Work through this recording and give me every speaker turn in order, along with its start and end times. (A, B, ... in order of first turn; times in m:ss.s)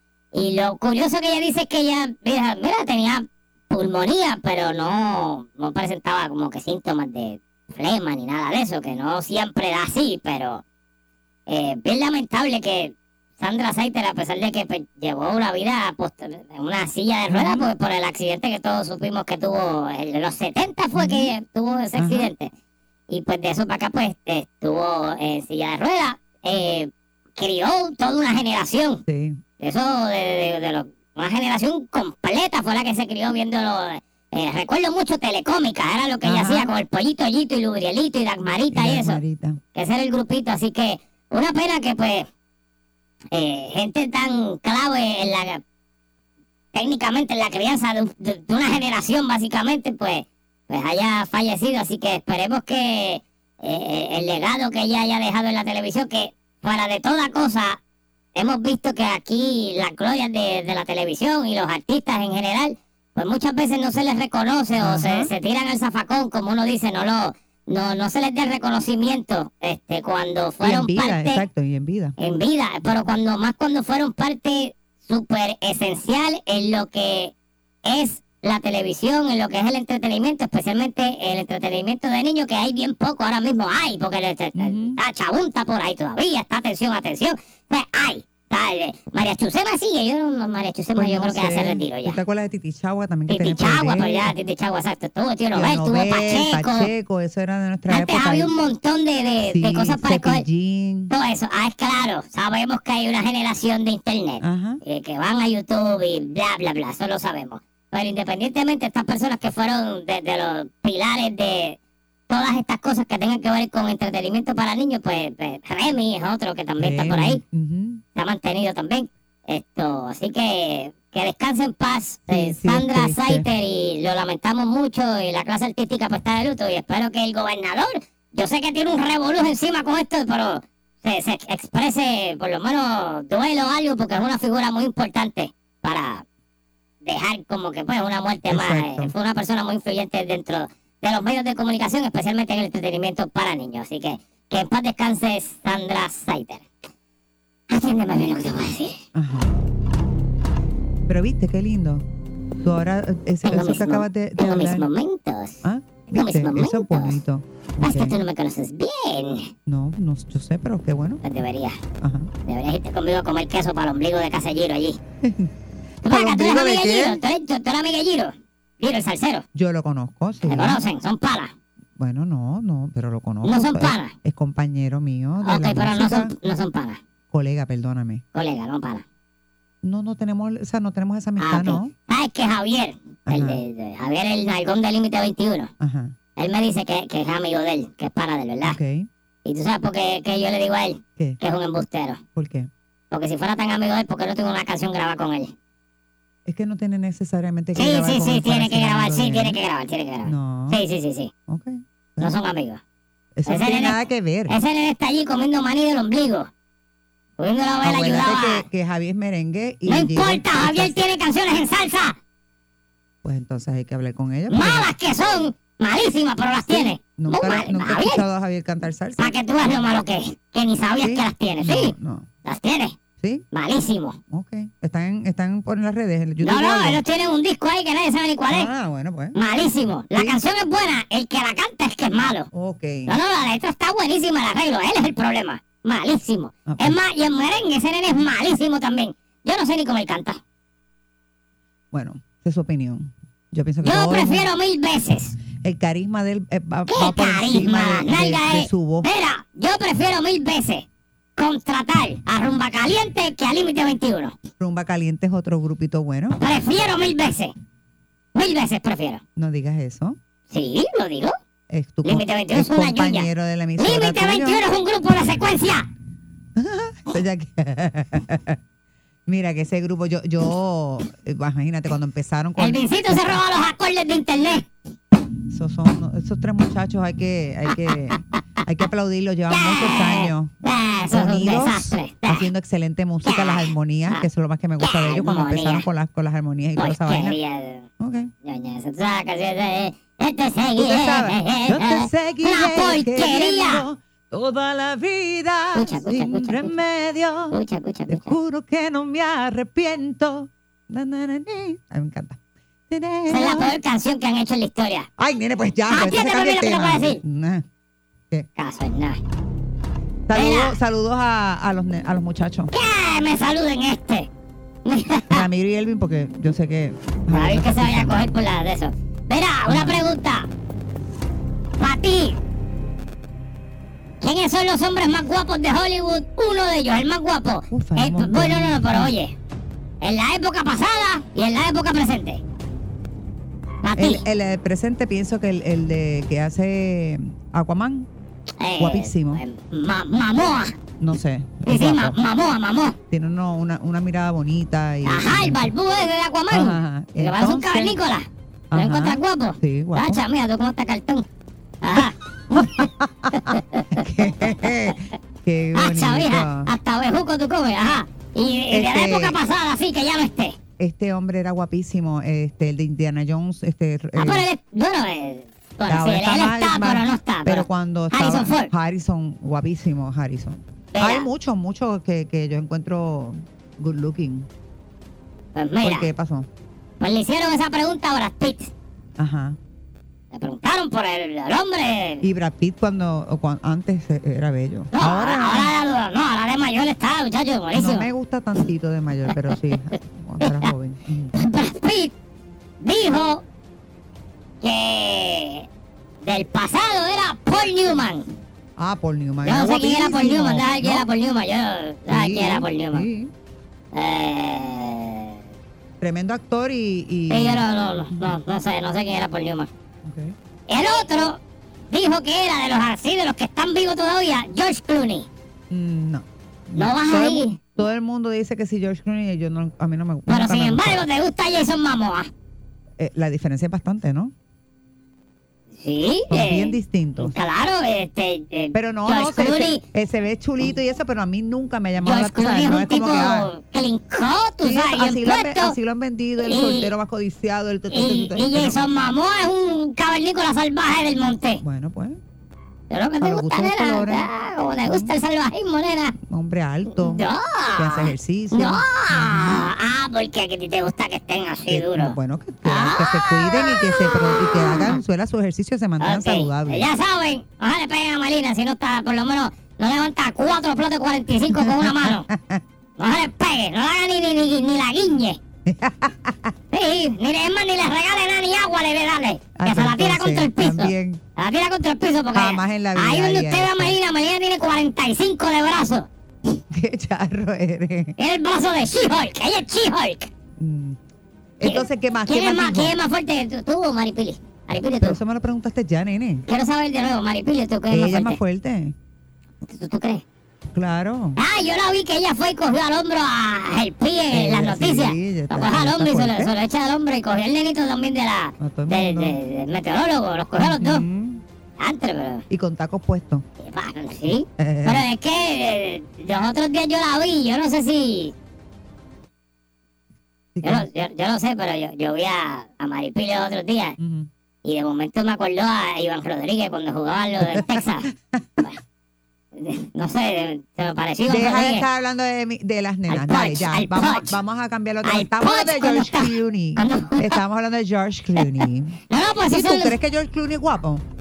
0:00.3-0:10.6 A
0:11.5-0:22.5 A
0:17.3-0:17.7 B
0:21.0-0:21.3 B
0:22.0-0:22.3 B
0:23.1-0:29.0 A
0:29.1-0:29.4 B
0:29.6-0:39.2 A
0:36.2-0:36.7 B
0:38.7-0:39.6 B
0:39.7-0:42.3 A
0:43.3-0:45.6 A
0:46.7-0:57.8 A
0:58.4-1:11.4 A
1:04.8-1:05.3 B
1:10.6-1:12.2 B
1:12.2-1:17.3 A
1:17.8-1:32.2 A
1:24.6-1:25.0 B
1:31.0-1:34.3 B
1:33.3-1:36.9 A
1:35.5-1:38.5 B
1:37.9-1:40.4 A
1:39.4-1:41.1 B
1:41.1-1:51.8 A
1:44.4-1:44.8 B
1:52.3-1:57.4 A
1:56.8-1:58.0 B
1:58.2-2:16.2 A
2:02.3-2:03.5 B
2:17.0-2:26.7 A
2:18.5-2:19.1 B
2:27.7-2:29.0 A
2:29.2-2:29.5 B
2:31.1-2:32.0 B
2:32.6-2:34.9 B
2:33.4-2:37.2 A
2:35.6-2:38.2 B
2:37.8-2:39.5 A
2:39.7-2:41.2 B
2:41.2-2:41.8 A
2:42.0-2:42.3 B
2:42.5-2:45.0 A
2:45.2-2:45.5 B
2:46.0-2:49.4 A
2:46.0-2:47.2 B
2:49.6-2:50.8 B
2:50.5-2:51.5 A
2:52.0-2:56.4 B
2:53.4-2:54.1 A
2:55.4-2:57.0 A
2:57.3-2:58.2 B
2:58.3-2:59.0 A
2:59.8-3:01.9 B
3:01.4-3:05.7 A
3:03.3-3:03.6 B
3:05.8-3:06.1 B
3:06.4-3:08.8 A
3:08.6-3:09.1 B
3:09.4-3:12.2 A
3:12.4-3:12.7 B
3:13.1-3:15.5 A
3:16.5-3:19.6 B
3:17.8-3:21.3 A
3:20.2-3:20.8 B
3:21.5-3:22.4 B
3:22.2-3:22.8 A
3:23.4-3:24.5 B
3:23.5-3:26.5 A
3:27.4-3:28.6 A
3:27.8-3:31.0 B
3:29.9-3:32.2 A
3:33.2-3:34.9 B
3:34.5-3:38.2 A
3:36.7-3:39.4 B
3:39.2-3:41.9 A
3:41.0-3:42.3 B
3:42.4-3:43.0 A
3:43.2-3:43.5 B
3:43.5-3:44.2 A
3:44.3-3:47.0 B
3:46.4-3:48.7 A
3:48.5-3:49.4 B
3:49.4-3:52.5 A
3:50.1-3:50.4 B
3:52.5-3:53.2 B
3:53.1-4:00.4 A
3:56.7-3:57.0 B
4:01.9-4:04.5 B
4:03.8-4:05.4 A
4:05.6-4:09.1 B
4:06.9-4:10.9 A
4:11.4-4:14.4 A
4:14.6-4:16.4 B
4:16.4-4:17.5 A
4:18.4-4:19.2 A
4:19.4-4:20.2 B
4:20.5-4:21.4 A
4:21.7-4:24.6 B
4:22.0-4:25.9 A
4:26.6-4:28.6 B
4:29.3-4:33.4 B
4:32.6-4:34.7 A
4:35.5-4:40.5 B
4:39.5-4:42.5 A
4:41.1-4:47.4 B
4:43.2-4:44.3 A
4:44.8-4:45.9 A
4:46.8-4:47.9 A
4:48.0-4:48.3 B
4:48.4-4:53.8 A
4:50.8-4:57.6 B
4:55.8-4:56.7 A
4:57.5-4:58.4 A
4:58.1-5:02.4 B
5:02.9-5:03.8 B
5:03.3-5:05.1 A
5:05.2-5:07.7 B
5:05.9-5:07.2 A
5:08.6-5:09.2 A
5:10.3-5:12.7 B
5:10.3-5:10.8 A
5:12.7-5:14.3 A
5:14.8-5:15.4 A
5:15.3-5:18.3 B
5:17.3-5:20.5 A
5:19.7-5:20.1 B
5:21.8-5:22.4 A
5:24.2-5:29.3 A
5:27.7-5:29.2 B
5:30.0-5:32.4 A
5:33.8-5:34.2 A
5:34.0-5:38.1 B
5:38.6-5:40.8 A
5:38.8-5:39.4 B
5:41.0-5:42.2 B
5:41.7-5:43.0 A
5:43.1-5:45.7 B
5:45.1-5:51.3 A
5:46.5-5:48.0 B
5:48.7-5:50.2 B
5:51.8-5:54.7 A
5:52.5-5:56.7 B
5:55.8-6:00.6 A
5:58.7-5:59.4 B
6:00.8-6:04.5 B
6:04.2-6:08.7 A
6:05.9-6:14.5 B
6:10.9-6:11.3 A
6:15.6-6:16.1 A
6:15.8-6:16.5 B
6:17.0-6:18.7 A
6:19.2-6:19.6 B
6:20.3-6:22.2 A
6:22.2-6:25.7 B
6:24.9-6:28.1 A
6:27.8-6:31.3 B
6:30.4-6:30.7 A
6:31.4-6:32.1 A
6:32.8-6:33.4 A
6:34.6-6:35.7 A
6:36.2-6:38.3 A
6:38.8-6:41.1 B
6:39.4-6:43.1 A
6:42.1-6:43.3 B
6:43.9-6:45.4 A
6:46.0-6:48.4 B
6:47.3-6:49.7 A
6:50.0-6:50.4 B
6:50.7-6:55.3 A
6:55.7-7:01.1 B
6:56.8-6:57.6 A
7:00.3-7:02.3 A
7:03.0-7:04.3 B
7:05.8-7:09.8 A
7:06.3-7:07.4 B
7:08.7-7:13.5 B
7:12.0-7:15.8 A
7:14.6-7:18.9 B
7:16.4-7:16.9 A
7:17.9-7:21.6 A
7:21.6-7:22.2 B
7:22.9-7:26.2 A
7:23.2-7:24.3 B
7:24.8-7:25.1 B
7:26.2-7:27.3 B
7:26.9-7:35.0 A
7:27.8-7:29.7 B
7:31.7-7:36.9 B
7:36.0-7:42.3 A
7:41.5-7:42.6 B
7:43.0-7:45.4 A
7:45.7-7:46.5 B
7:46.7-7:56.1 A
7:49.6-7:51.2 B
7:52.3-7:54.0 B
7:56.7-7:58.2 B
7:58.2-8:00.3 A
8:00.6-8:01.0 B
8:01.6-8:03.0 B
8:01.6-8:05.2 A
8:05.0-8:06.4 B
8:06.5-8:08.4 A
8:07.9-8:09.0 B
8:09.6-8:10.2 A
8:10.7-8:11.4 B
8:11.4-8:21.0 A
8:14.3-8:16.5 B
8:18.6-8:19.4 B
8:20.6-8:21.4 B
8:21.8-8:22.4 A
8:22.5-8:23.4 B
8:23.6-8:28.3 A
8:24.6-8:25.1 B
8:30.6-8:30.9 B
8:30.6-8:34.0 A
8:34.0-8:34.3 B
8:34.6-8:38.1 A
8:37.4-8:38.7 B
8:39.6-8:41.9 A
8:41.3-8:51.0 B
8:43.1-8:44.4 A
8:45.0-8:47.4 A
8:48.4-8:50.0 A